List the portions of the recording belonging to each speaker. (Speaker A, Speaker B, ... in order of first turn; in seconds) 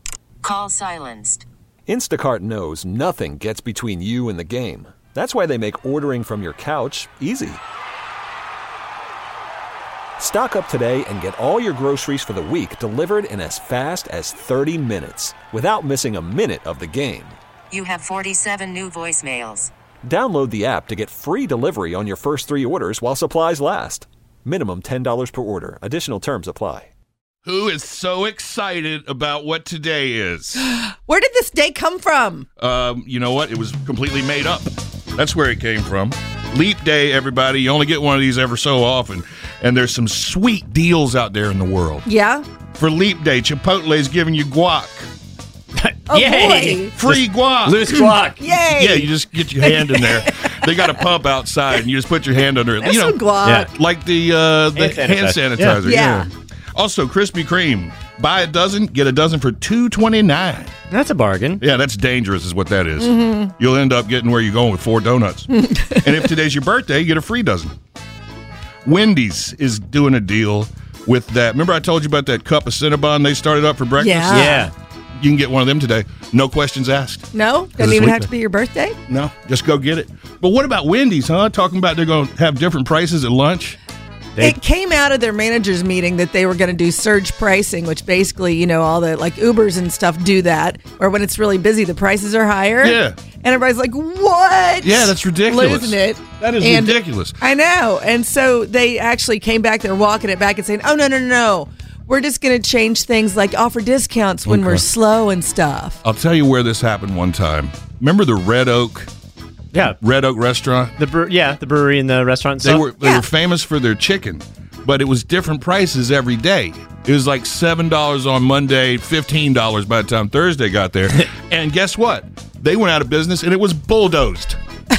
Speaker A: 0.4-1.5, 17.7-19.7
Speaker B: 1.9-7.6, 10.2-17.4, 20.0-26.9
Speaker C: 27.4-30.6, 32.6-42.0, 42.7-45.0, 47.0-47.9, 48.4-60.7, 61.6-67.7, 68.8-74.6, 75.2-77.2, 77.8-78.3, 79.1-83.8, 92.8-93.2, 94.8-97.3, 106.0-109.1, 110.0-110.9, 112.6-124.6
Speaker D: 30.6-32.5, 42.0-42.4, 46.1-46.9, 48.4-50.9, 52.8-53.7, 55.8-56.3, 63.0-63.5, 65.5-66.2, 74.0-74.7, 77.3-79.0, 84.4-106.0, 113.0-113.2
Speaker E: 45.8-48.4, 53.4-53.7, 54.7-55.8, 60.9-61.6, 74.3-74.7, 109.7-110.0, 111.0-112.8